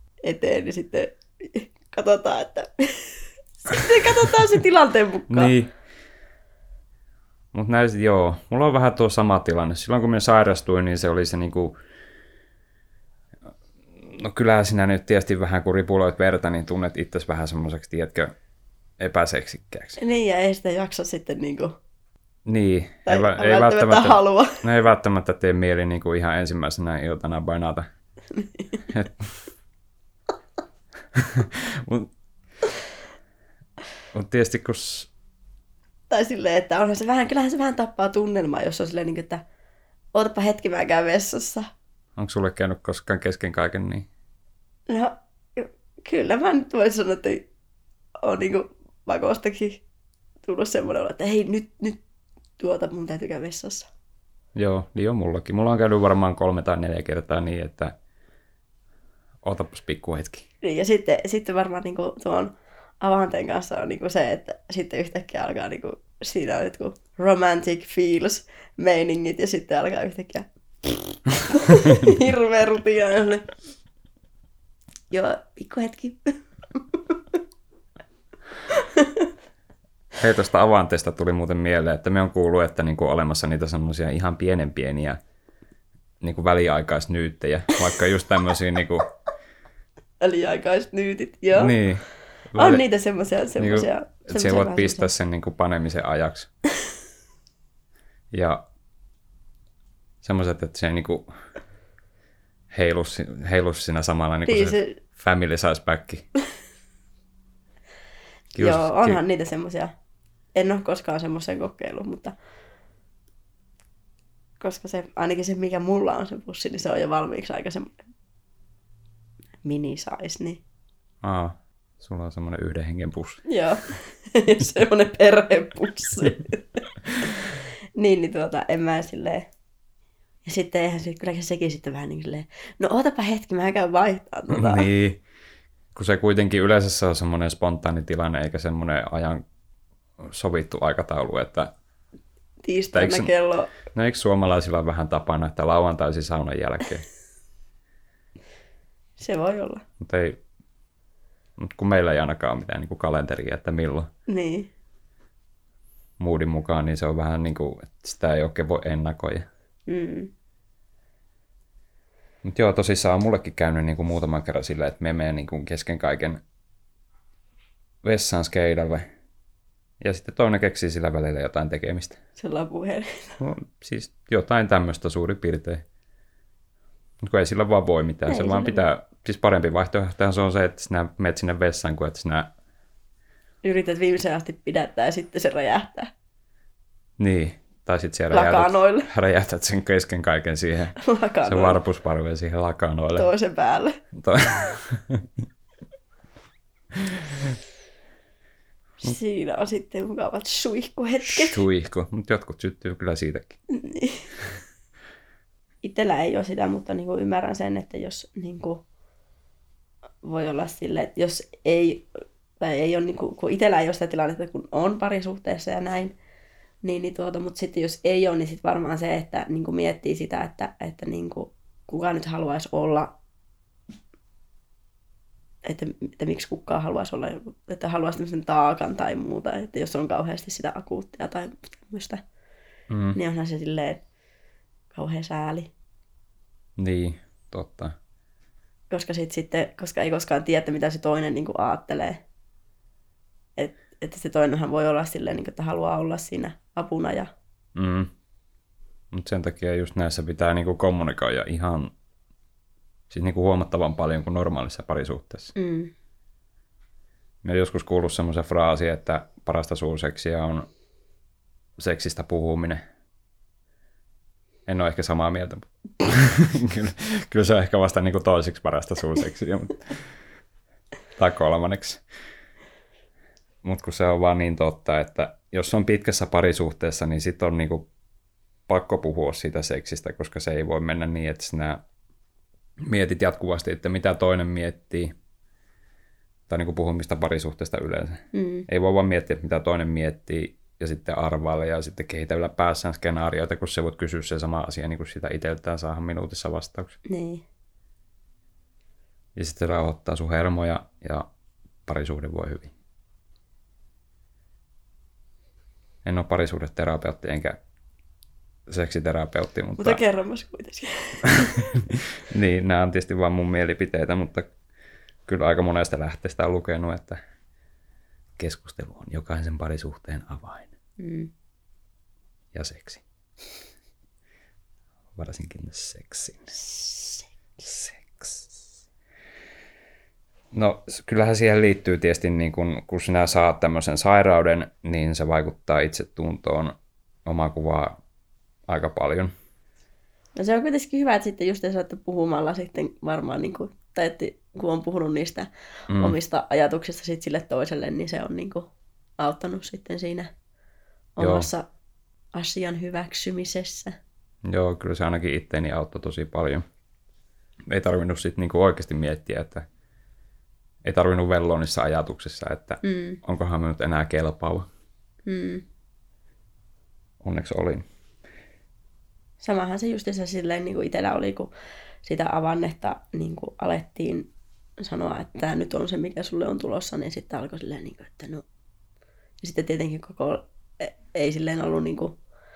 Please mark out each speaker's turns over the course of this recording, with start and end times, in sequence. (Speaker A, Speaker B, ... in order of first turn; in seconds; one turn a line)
Speaker A: 0.2-5.5
Speaker B: 5.3-5.7
Speaker B: 7.5-11.7
Speaker B: 14.0-18.3
Speaker B: 19.0-20.0
Speaker A: 20.0-21.8
Speaker B: 22.4-27.9
Speaker A: 23.1-24.6
Speaker A: 28.3-28.8
Speaker B: 28.9-29.4
Speaker B: 31.1-32.1
Speaker B: 34.1-35.1
Speaker A: 36.1-39.4
Speaker A: 40.1-41.7
Speaker B: 42.2-44.1
Speaker A: 44.9-47.5
Speaker A: 48.2-49.8
Speaker A: 50.4-52.0
Speaker A: 52.6-53.9
Speaker B: 54.5-57.9
Speaker B: 59.4-60.5
Speaker A: 60.6-73.5
Speaker A: 75.1-76.4
Speaker A: 78.7-79.2
Speaker B: 80.2-85.2
Speaker B: 86.2-89.0
Speaker A: 90.2-91.8
Speaker B: 91.5-92.8
Speaker A: 92.5-95.1
Speaker B: 93.6-96.5
Speaker B: 98.3-98.6
Speaker B: 100.2-101.3
Speaker B: 102.7-106.2
Speaker A: 104.5-105.0
Speaker B: 108.5-109.2
Speaker A: 108.6-109.9
Speaker A: 110.5-112.3
Speaker A: 114.6-118.0
Speaker A: 119.6-120.6
Speaker B: 121.2-123.4
Speaker A: 123.5-126.8
Speaker A: 128.0-129.5
Speaker A: 130.4-134.9
Speaker B: 134.5-135.2
Speaker B: 135.9-139.4
Speaker B: 140.2-141.7
Speaker A: 142.6-143.7
Speaker B: 142.9-143.3
Speaker B: 143.9-147.1
Speaker A: 149.2-149.8
Speaker B: 150.0-150.4
Speaker B: 151.6-154.1
Speaker A: 154.3-154.7
Speaker B: 156.2-159.5
Speaker A: 159.9-160.3
Speaker B: 162.4-166.4
Speaker B: 168.0-169.1
Speaker B: 170.0-172.2
Speaker A: 172.4-173.4
Speaker B: 173.4-175.8
Speaker B: 177.2-182.5
Speaker A: 178.3-178.8
Speaker A: 183.6-186.1
Speaker B: 187.2-193.3
Speaker A: 188.3-189.1
Speaker A: 191.0-191.8
Speaker A: 193.2-194.0
Speaker B: 194.1-195.3
Speaker B: 196.9-197.3
Speaker A: 199.0-201.6
Speaker B: 201.3-203.6
Speaker A: 203.7-204.3
Speaker A: 205.8-208.8
Speaker A: 210.2-212.1
Speaker A: 212.6-216.1
Speaker A: 216.8-223.1
Speaker A: 225.6-232.2
Speaker B: 232.9-233.2
Speaker A: 233.1-234.0
Speaker A: 234.9-235.7
Speaker B: 236.8-237.9
Speaker A: 238.9-242.2
Speaker A: 243.6-247.3
Speaker B: 247.7-248.1
Speaker B: 249.1-251.9
Speaker B: 253.1-255.5
Speaker A: 255.6-255.9
Speaker B: 257.4-260.7
Speaker B: 261.8-262.8
Speaker B: 264.6-270.0
Speaker B: 271.1-272.0
Speaker B: 273.6-277.9
Speaker B: 278.7-281.8
Speaker B: 282.8-285.1
Speaker B: 286.5-296.9
Speaker A: 288.3-288.6
Speaker A: 297.1-297.4
Speaker B: 299.4-301.3
Speaker B: 301.9-302.7
Speaker B: 306.0-307.6
Speaker B: 308.7-310.0
Speaker A: 309.8-311.6
Speaker B: 312.3-314.5
Speaker B: 315.2-317.2
Speaker B: 318.4-320.7
Speaker A: 321.0-321.3
Speaker B: 322.5-323.0
Speaker B: 325.1-326.6
Speaker A: 326.8-327.2
Speaker B: 327.6-328.5
Speaker B: 330.5-338.0
Speaker B: 338.7-339.3
Speaker A: 340.4-350.3
Speaker B: 345.9-346.1
Speaker A: 351.1-351.7
Speaker B: 351.2-351.5
Speaker A: 352.3-353.9
Speaker B: 354.5-356.6
Speaker B: 357.7-359.6
Speaker B: 360.8-364.7
Speaker A: 362.8-363.2
Speaker A: 365.2-365.6
Speaker B: 367.2-367.9
Speaker A: 369.4-371.5
Speaker A: 372.0-378.4
Speaker A: 379.4-382.2